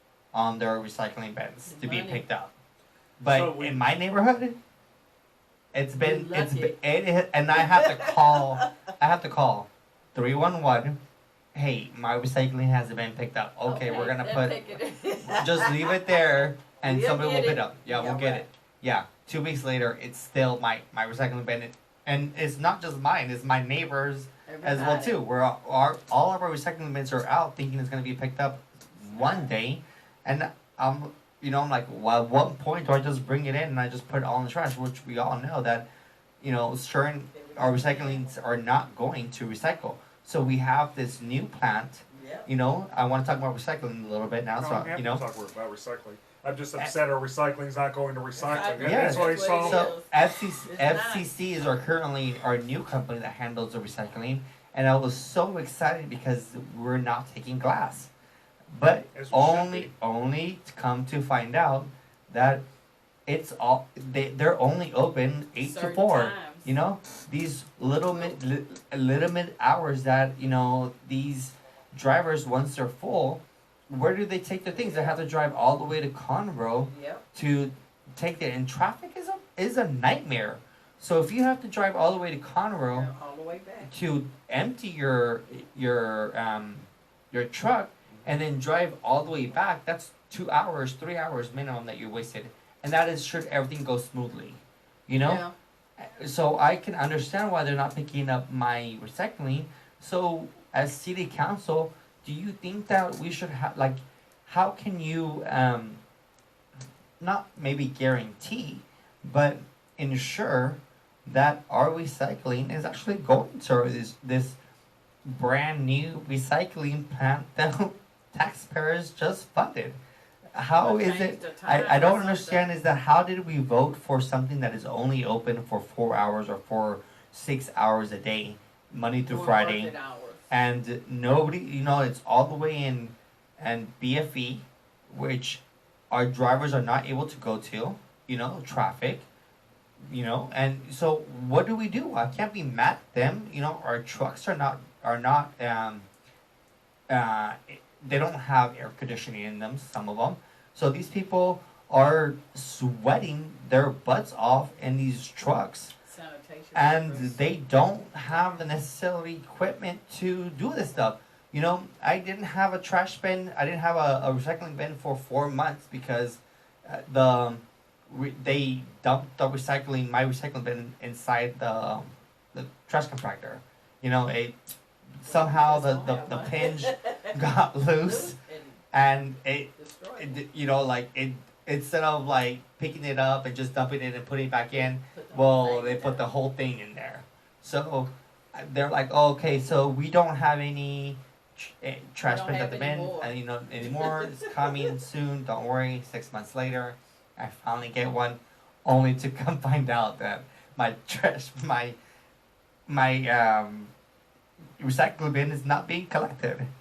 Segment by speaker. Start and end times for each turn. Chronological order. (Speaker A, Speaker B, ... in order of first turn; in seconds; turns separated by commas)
Speaker A: 0.3-2.5, Speaker B: 1.7-2.2, Speaker A: 3.2-4.6, Speaker C: 3.2-3.8, Speaker A: 5.7-11.0, Speaker B: 6.0-6.8, Speaker B: 7.5-8.7, Speaker A: 11.5-14.6, Speaker B: 13.6-16.2, Speaker A: 15.3-35.9, Speaker B: 16.8-18.5, Speaker B: 24.5-25.2, Speaker B: 29.0-29.5, Speaker A: 36.4-45.2, Speaker B: 37.3-38.3, Speaker B: 42.1-42.5, Speaker C: 44.6-49.9, Speaker B: 48.4-51.3, Speaker A: 48.8-58.1, Speaker A: 58.7-62.6, Speaker C: 59.1-59.9, Speaker A: 63.3-83.1, Speaker B: 65.6-66.8, Speaker B: 68.0-68.3, Speaker B: 74.7-75.2, Speaker B: 76.8-77.2, Speaker B: 82.9-83.9, Speaker A: 83.8-95.4, Speaker B: 95.2-95.5, Speaker A: 96.0-106.0, Speaker A: 107.2-114.6, Speaker A: 115.3-120.0, Speaker A: 120.5-129.9, Speaker B: 120.8-122.7, Speaker B: 129.2-130.5, Speaker A: 130.5-139.2, Speaker A: 140.1-146.1, Speaker A: 147.1-155.9, Speaker B: 156.0-157.5, Speaker A: 156.7-174.6, Speaker B: 158.2-158.7, Speaker A: 175.2-178.3, Speaker B: 175.2-177.4, Speaker B: 178.0-178.8, Speaker A: 178.9-201.9, Speaker B: 179.8-180.4, Speaker B: 184.7-186.2, Speaker B: 192.2-194.9, Speaker A: 202.9-203.9, Speaker A: 204.8-206.7